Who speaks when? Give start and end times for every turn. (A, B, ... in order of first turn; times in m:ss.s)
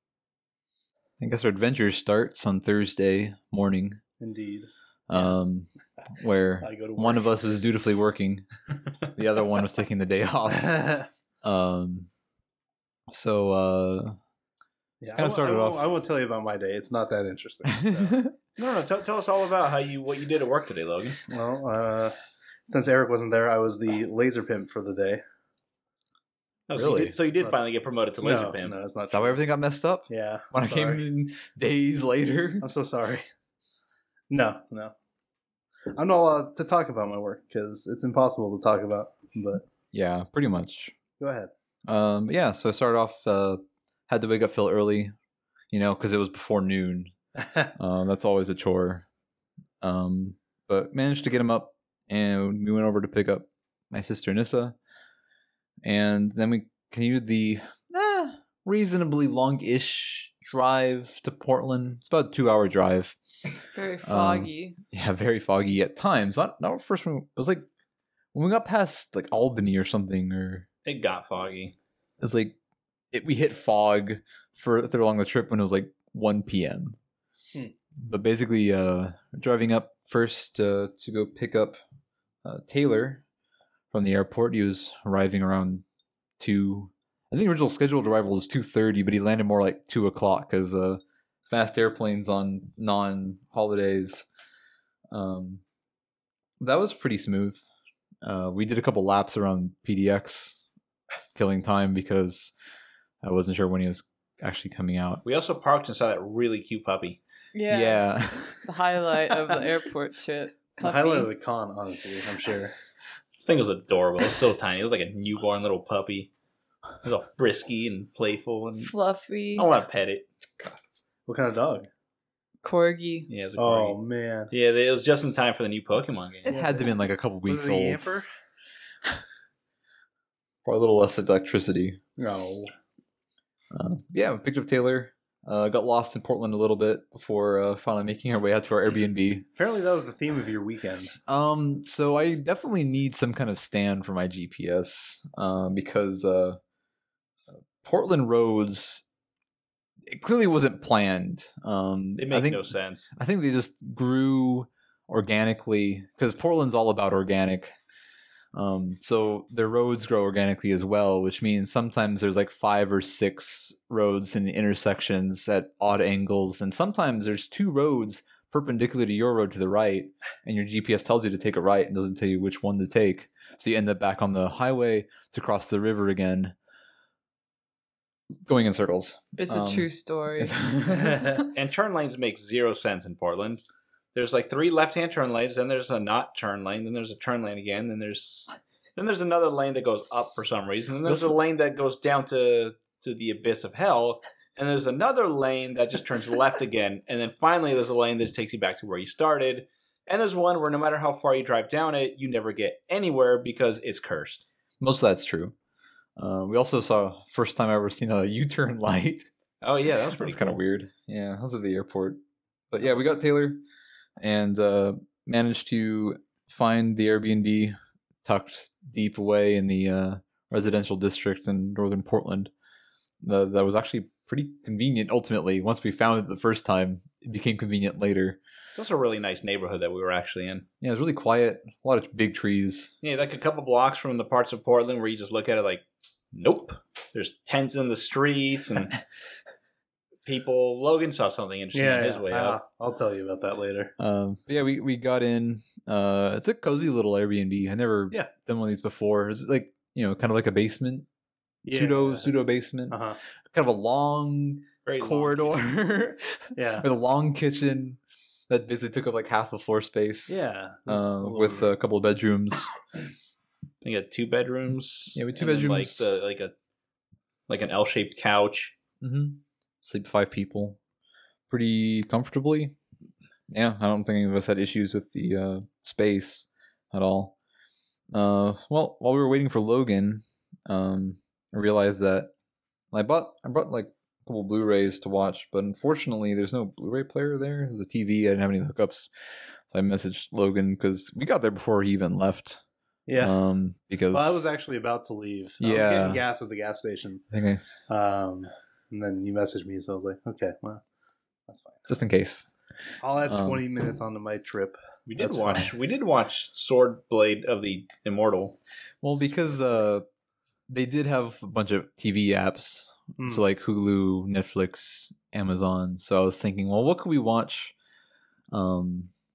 0:01.2-0:04.0 A
0:04.2-0:05.3 B
0:05.1-0:08.4 A
0:06.6-0:07.3 B
0:09.1-0:12.1 A
0:10.7-0:11.0 B
0:13.1-0:14.2 A
0:15.0-0:18.2 B
0:15.1-0:15.9 A
0:17.7-0:18.3 A
0:18.6-0:21.2 C
0:21.3-0:22.1 B
0:22.7-0:25.2 B
0:26.7-0:28.8 C
0:26.7-0:27.1 A
0:28.2-0:29.4 B
0:29.1-0:32.6 A
0:30.1-0:31.0 B
0:32.6-0:33.2 B
0:34.3-0:34.9 B
0:35.9-0:39.6 B
0:39.9-0:40.9 A
0:41.2-0:41.5 B
0:41.9-0:45.1 A
0:45.7-0:47.1 A
0:47.7-0:49.0 A
0:49.8-0:54.8 A
0:55.8-1:03.2 A
1:03.7-1:04.8 D
1:04.0-1:07.6 A
1:08.3-1:10.6 A
1:10.8-1:11.7 C
1:12.2-1:12.6 A
1:13.1-1:17.0 A
1:18.0-1:21.8 A
1:22.4-1:23.2 A
1:23.9-1:25.8 A
1:26.4-1:34.2 A
1:35.1-1:35.6 A
1:36.6-1:37.6 A
1:38.2-1:40.6 A
1:41.3-1:42.5 A
1:43.2-1:45.2 A
1:45.2-1:47.2 C
1:47.5-1:51.3 D
1:47.7-1:48.5 A
1:50.8-1:52.7 B
1:53.4-1:56.3 C
1:57.0-1:58.9 C
1:58.8-1:59.7 D
1:59.6-2:00.3 C
2:01.2-2:01.9 B
2:02.6-2:03.3 D
2:03.3-2:04.0 C
2:03.6-2:04.5 B
2:04.5-2:06.6 C
2:06.4-2:08.0 A
2:06.5-2:06.9 B
2:07.4-2:08.3 B
2:10.6-2:12.0 A
2:12.2-2:12.7 B
2:13.7-2:19.4 A
2:19.6-2:21.1 B
2:21.3-2:26.6 A
2:27.8-2:29.0 A
2:30.1-2:32.6 A
2:32.2-2:33.1 C
2:33.1-2:37.7 A
2:38.5-2:56.5 A
2:58.4-3:01.4 A
2:59.4-3:00.6 D
3:01.1-3:01.4 B
3:01.5-3:24.4 C
3:11.0-3:11.4 A
3:24.8-3:25.5 A
3:26.2-3:29.3 A
3:29.6-3:30.6 C
3:30.2-3:32.2 A
3:32.7-3:33.6 A
3:34.2-3:42.5 A
3:43.2-3:48.4 A
3:48.7-3:50.6 C
3:50.8-3:52.9 A
3:53.0-3:58.9 C
4:00.2-4:02.6 C
4:01.7-4:03.9 B
4:04.0-4:11.1 A
4:11.6-4:12.3 B
4:11.7-4:13.0 A
4:12.9-4:13.2 B
4:13.5-4:22.7 A
4:14.8-4:15.6 C
4:16.6-4:16.9 B
4:20.3-4:21.7 B
4:23.8-4:26.5 C
4:25.1-4:26.0 A
4:27.5-4:28.7 C
4:29.0-4:30.8 A
4:31.5-4:32.7 A
4:33.5-4:37.3 A
4:38.1-4:42.3 A
4:42.9-4:49.1 A
4:49.7-4:52.6 A
4:53.1-4:53.4 B
4:53.2-4:54.4 A
4:54.1-4:57.2 B
4:55.6-4:56.2 A
4:57.3-4:57.6 A
4:57.9-5:00.8 B
5:01.5-5:01.9 B
5:01.9-5:02.5 A
5:03.0-5:04.8 B
5:03.2-5:03.6 A
5:05.1-5:08.6 C
5:05.2-5:05.7 A
5:09.0-5:10.0 A
5:10.7-5:17.7 A
5:13.2-5:13.4 B
5:18.5-5:19.1 A